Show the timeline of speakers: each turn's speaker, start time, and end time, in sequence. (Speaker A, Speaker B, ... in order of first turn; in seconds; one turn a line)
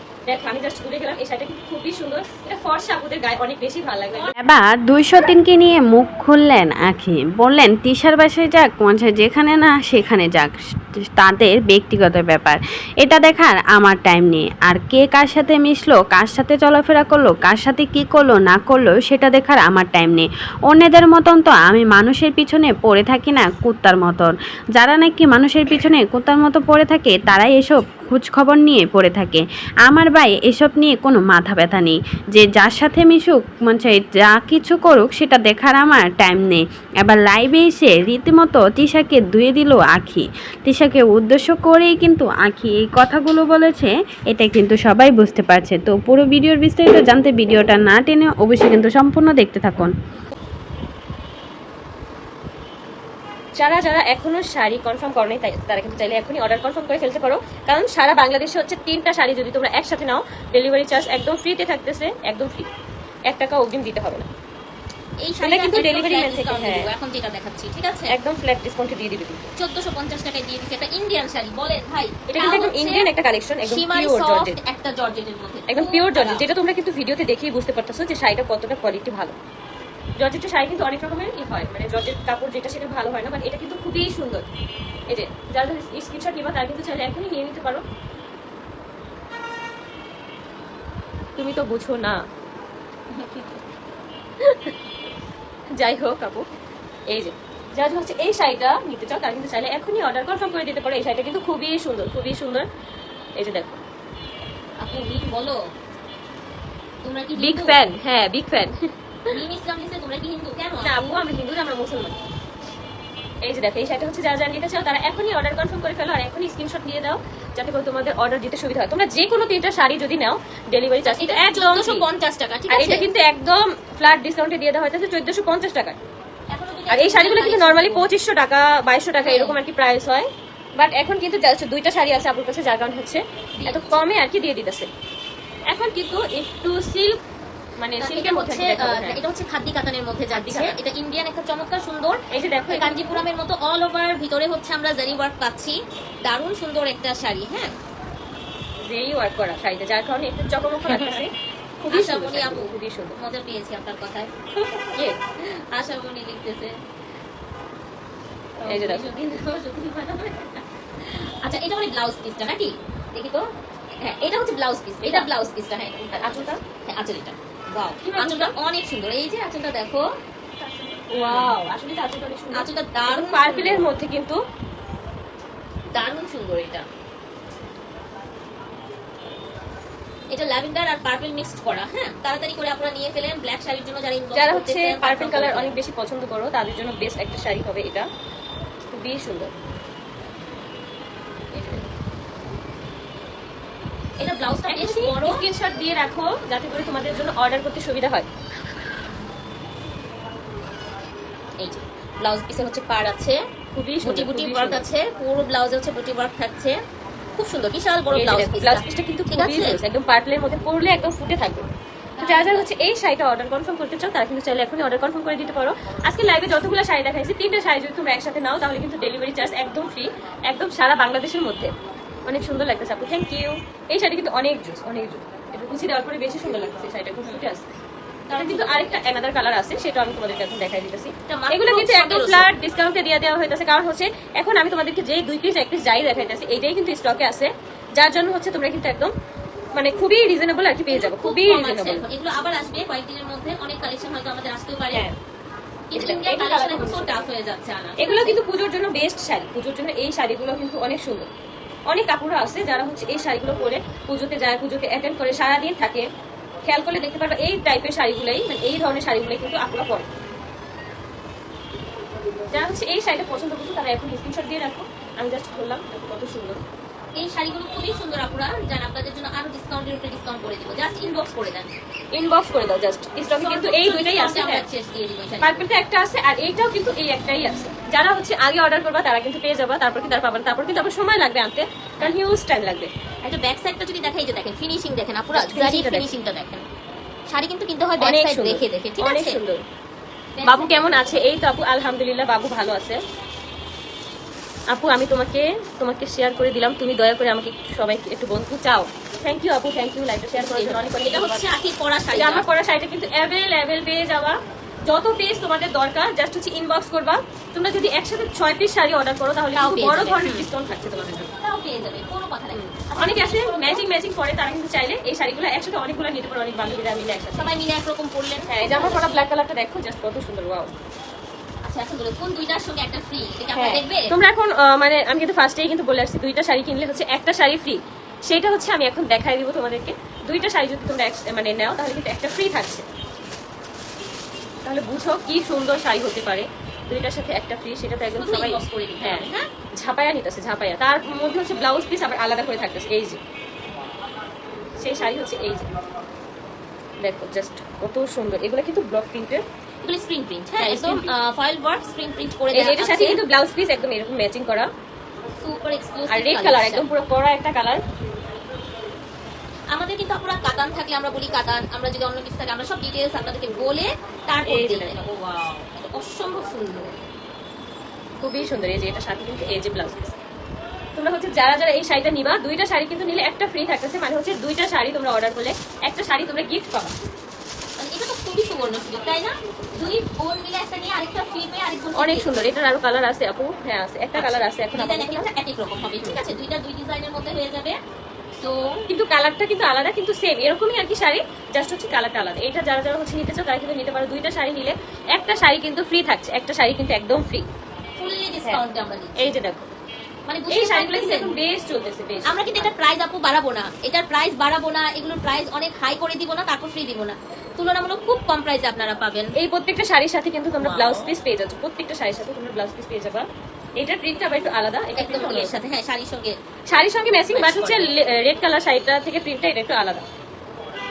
Speaker A: 0.2-4.3
Speaker B: 4.4-49.9
Speaker A: 53.5-62.7
Speaker A: 63.3-64.3
Speaker C: 65.2-68.1
Speaker A: 65.4-66.9
Speaker A: 68.1-69.5
Speaker C: 69.6-73.1
Speaker A: 72.3-74.6
Speaker C: 73.6-76.5
Speaker A: 75.7-79.3
Speaker A: 80.2-84.5
Speaker A: 85.1-87.8
Speaker A: 91.4-92.2
Speaker C: 93.2-93.5
Speaker A: 94.4-94.7
Speaker A: 95.8-96.5
Speaker A: 97.1-102.7
Speaker A: 103.3-103.8
Speaker C: 104.8-105.6
Speaker C: 107.0-107.8
Speaker A: 107.4-108.9
Speaker C: 109.3-111.0
Speaker A: 110.8-112.2
Speaker A: 113.4-122.0
Speaker C: 121.0-123.1
Speaker A: 122.7-126.0
Speaker C: 126.5-128.1
Speaker A: 126.9-134.9
Speaker C: 129.2-129.6
Speaker C: 133.6-134.0
Speaker A: 135.7-137.2
Speaker A: 137.8-139.2
Speaker C: 138.0-147.7
Speaker A: 140.3-140.8
Speaker A: 142.3-143.2
Speaker A: 148.8-153.2
Speaker C: 150.9-151.2
Speaker C: 151.9-154.3
Speaker C: 154.9-156.8
Speaker C: 158.6-163.5
Speaker A: 158.7-159.1
Speaker C: 164.0-170.1
Speaker A: 166.2-166.6
Speaker A: 168.0-168.5
Speaker C: 170.9-171.5
Speaker A: 171.1-174.4
Speaker C: 172.5-173.9
Speaker C: 175.9-176.8
Speaker C: 180.3-185.7
Speaker A: 184.3-188.1
Speaker A: 188.9-189.5
Speaker A: 191.5-191.8
Speaker C: 194.2-195.4
Speaker A: 194.6-198.3
Speaker C: 201.6-203.4
Speaker A: 203.7-204.8
Speaker C: 204.0-206.8
Speaker C: 207.3-209.8
Speaker A: 208.1-211.7
Speaker C: 212.2-212.7
Speaker A: 212.2-221.7
Speaker A: 222.2-227.6
Speaker C: 227.2-227.5
Speaker C: 228.3-229.1
Speaker A: 228.3-239.1
Speaker C: 231.3-232.5
Speaker A: 239.7-242.0
Speaker C: 240.9-245.1
Speaker A: 244.9-245.2
Speaker C: 245.9-248.4
Speaker A: 245.9-247.3
Speaker A: 248.0-251.3
Speaker A: 251.9-256.1
Speaker A: 256.6-260.1
Speaker A: 262.5-266.6
Speaker C: 267.2-271.7
Speaker A: 272.1-274.6
Speaker C: 273.3-275.6
Speaker A: 275.4-282.9
Speaker C: 283.2-286.6
Speaker A: 285.3-286.2
Speaker C: 287.3-289.4
Speaker A: 288.0-289.6
Speaker C: 290.4-291.4
Speaker A: 290.4-293.0
Speaker A: 294.7-301.4
Speaker C: 300.3-302.4
Speaker A: 302.1-311.3
Speaker C: 309.5-310.4
Speaker C: 311.4-313.8
Speaker A: 312.5-317.5
Speaker C: 317.3-319.2
Speaker A: 318.5-320.7
Speaker C: 321.6-324.1
Speaker A: 323.5-332.8
Speaker A: 334.6-343.2
Speaker C: 338.1-339.5
Speaker A: 344.8-345.7
Speaker A: 347.0-349.4
Speaker C: 349.8-353.2
Speaker A: 350.6-351.1
Speaker A: 352.5-354.7
Speaker C: 355.4-356.9
Speaker A: 356.1-357.8
Speaker C: 359.7-367.0
Speaker A: 364.5-365.0
Speaker A: 368.2-370.1
Speaker A: 370.9-376.9
Speaker C: 377.8-382.5
Speaker A: 381.9-385.3
Speaker C: 384.1-387.8
Speaker C: 388.4-388.8
Speaker A: 388.9-397.5
Speaker C: 398.0-399.4
Speaker A: 399.2-399.7
Speaker C: 400.3-401.3
Speaker A: 400.5-402.7
Speaker C: 402.3-409.3
Speaker A: 409.4-415.6
Speaker C: 410.6-411.1
Speaker C: 414.9-416.4
Speaker A: 416.7-420.0
Speaker C: 417.3-417.9